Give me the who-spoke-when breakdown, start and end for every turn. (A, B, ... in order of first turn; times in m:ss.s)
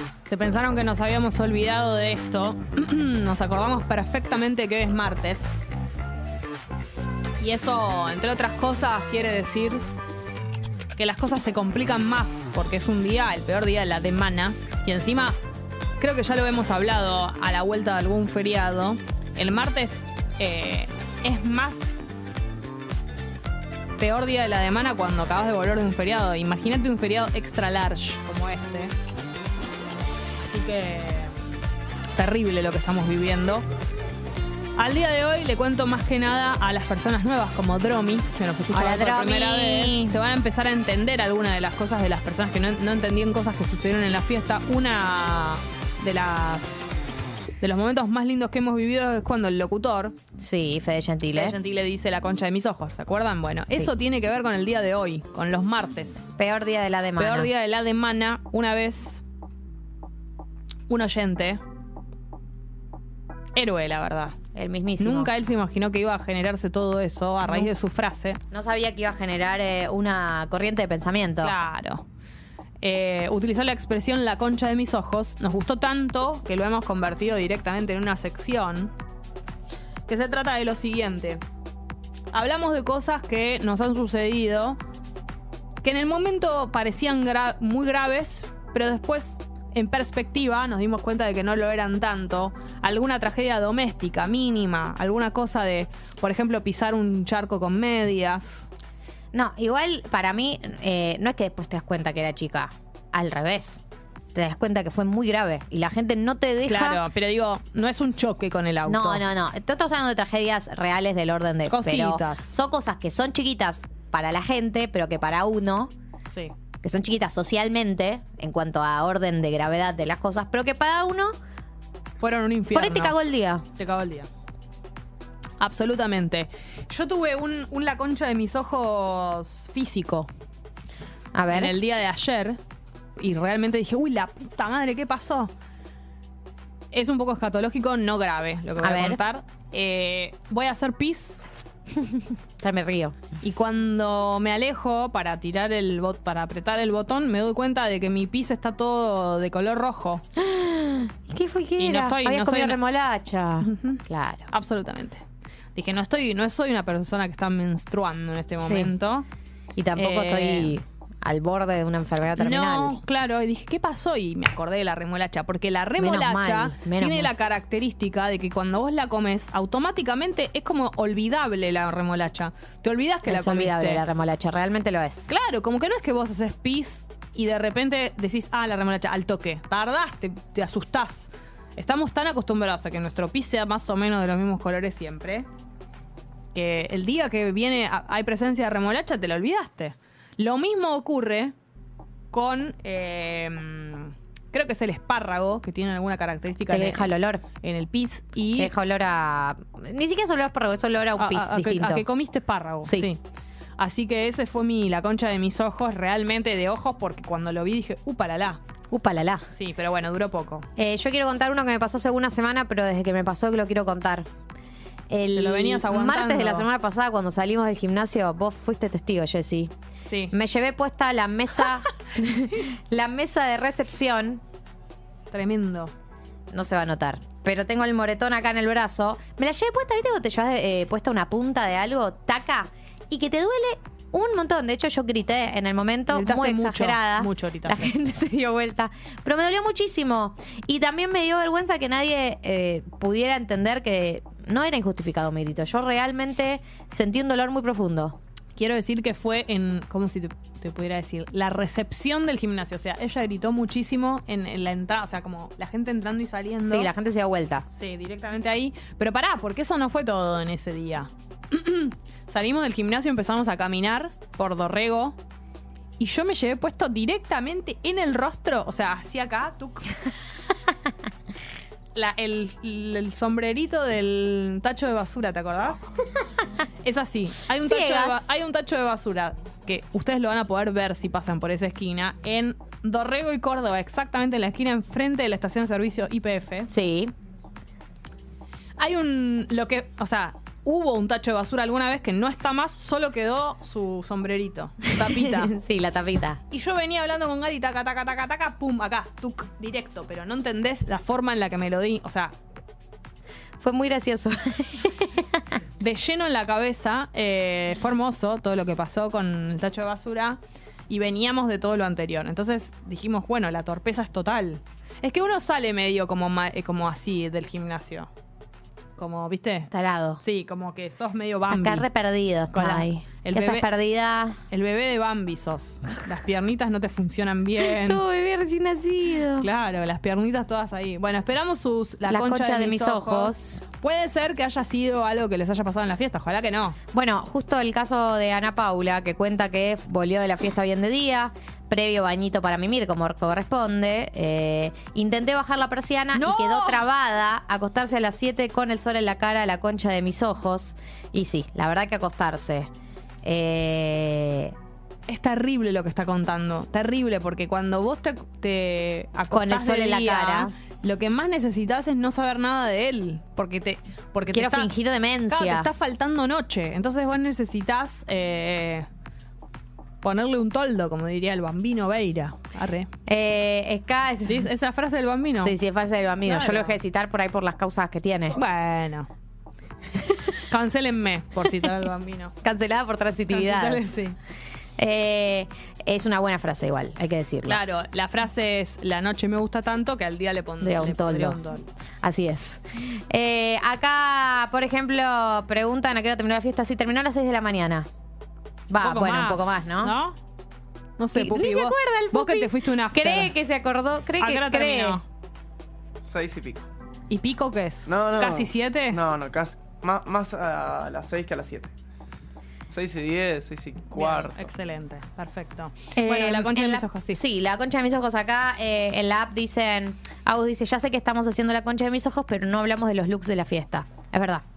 0:00.2-0:05.7 A
0:07.4-0:09.8 A
0:11.0-0:15.4 A
0:16.0-0:22.0 A
0:24.0-0:28.9 A
0:30.5-0:31.3 A
0:32.2-0:33.6 A
0:34.8-0:46.9 A
0:38.7-0:40.2 B
0:47.6-0:50.1 A
0:50.4-0:51.6 B
0:51.3-0:56.3 A
0:56.4-0:57.5 B
0:57.2-0:59.2 A
1:00.9-1:01.6 A
1:03.5-1:04.4 A
1:04.5-1:05.3 B
1:05.0-1:08.4 A
1:07.4-1:07.7 B
1:08.5-1:11.5 B
1:11.4-1:12.0 A
1:12.8-1:18.9 A
1:20.1-1:21.4 A
1:22.3-1:24.8 A
1:25.8-1:38.7 A
1:39.3-1:43.8 B
1:44.3-1:47.0 B
1:46.6-1:49.2 A
1:48.8-1:55.9 B
1:51.7-1:52.5 A
1:56.8-2:01.3 B
2:02.2-2:03.2 A
2:02.7-2:03.6 B
2:03.7-2:04.3 A
2:05.6-2:10.3 A
2:11.3-2:11.7 B
2:11.5-2:12.6 A
2:13.2-2:15.5 A
2:16.9-2:21.4 A
2:18.8-2:19.2 B
2:22.0-2:23.2 B
2:23.4-2:30.2 A
2:30.4-2:34.5 B
2:31.8-2:32.8 A
2:33.6-2:35.2 A
2:35.7-2:39.2 A
2:38.6-2:38.9 B
2:39.7-2:43.0 B
2:39.9-2:40.8 A
2:42.4-2:54.0 A
2:46.0-2:47.3 B
2:53.2-2:55.3 B
2:55.3-3:05.5 A
3:06.5-3:11.5 A
3:12.3-3:18.7 A
3:16.7-3:17.4 B
3:18.6-3:22.0 B
3:21.2-3:23.2 A
3:22.8-3:23.1 B
3:23.8-3:28.6 A
3:28.9-3:29.5 B
3:29.5-3:30.6 A
3:30.8-3:34.3 B
3:35.1-3:39.7 B
3:35.3-3:36.7 A
3:40.0-3:40.3 A
3:40.3-3:44.4 B
3:45.3-3:45.9 A
3:46.5-4:08.2 B
3:56.1-3:57.9 A
4:08.6-4:16.9 A
4:16.6-4:17.6 B
4:17.7-4:25.2 A
4:26.0-4:29.9 A
4:31.9-4:35.8 A
4:36.8-4:46.7 A
4:37.6-4:38.3 B
4:46.7-4:47.1 B
4:48.8-4:55.5 A
4:54.9-4:56.4 B
4:56.5-5:02.4 A
5:03.6-5:05.5 B
5:05.8-5:18.1 A
5:19.0-5:21.8 A
5:19.7-5:20.2 B
5:21.5-5:24.4 B
5:22.5-5:23.7 A
5:24.5-5:28.0 A
5:27.6-5:29.5 B
5:29.4-5:36.8 A
5:32.1-5:33.6 B
5:36.9-5:52.7 B
5:46.1-5:46.8 A
5:53.2-5:54.5 B
5:55.1-6:04.7 A
5:59.3-6:00.5 B
6:04.3-6:05.7 B
6:05.3-6:08.9 A
6:10.0-6:12.9 A
6:13.0-6:14.5 B
6:14.2-6:15.6 A
6:15.4-6:18.4 B
6:16.2-6:16.7 A
6:18.3-6:19.1 A
6:20.5-6:22.3 A
6:22.4-6:23.9 B
6:23.3-6:24.2 A
6:24.8-6:27.6 B
6:27.5-6:31.7 A
6:30.6-6:31.4 B
6:32.0-6:37.9 B
6:38.7-6:39.9 B
6:38.8-6:40.2 A
6:41.0-6:43.3 A
6:41.1-6:45.0 B
6:44.2-6:45.0 A
6:46.0-6:46.6 C
6:47.1-6:49.0 A
6:47.9-6:51.7 C
6:52.7-6:54.5 C
6:53.9-6:57.2 A
6:55.9-7:04.4 B